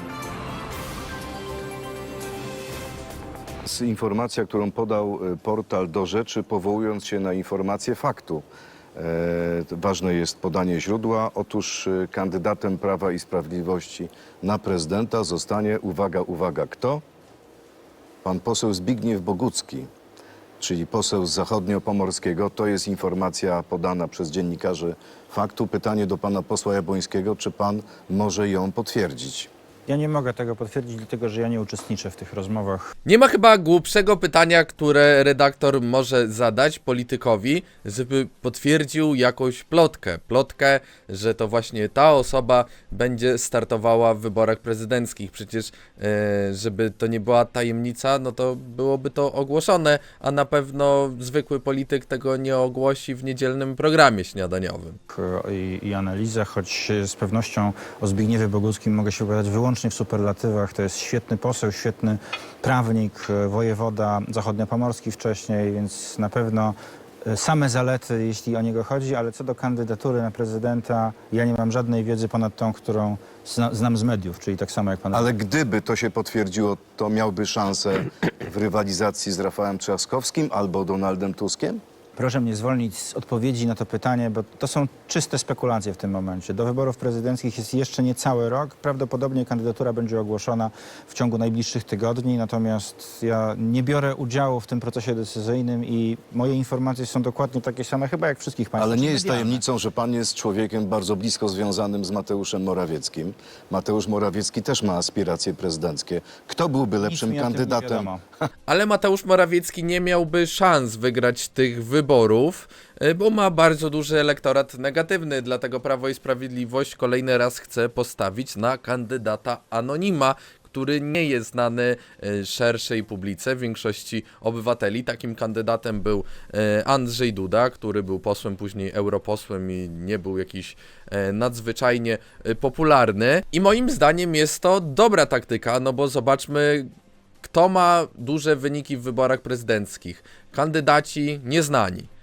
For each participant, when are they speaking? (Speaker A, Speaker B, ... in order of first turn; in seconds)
Speaker A: 3.6-17.0, 18.2-19.9, 20.6-29.5, 75.1-81.8, 98.8-108.1
Speaker B: 29.9-32.9, 55.1-66.7, 67.2-75.3, 82.2-99.6, 107.0-108.2
Speaker C: 33.0-55.0, 108.7-136.9, 137.4-142.1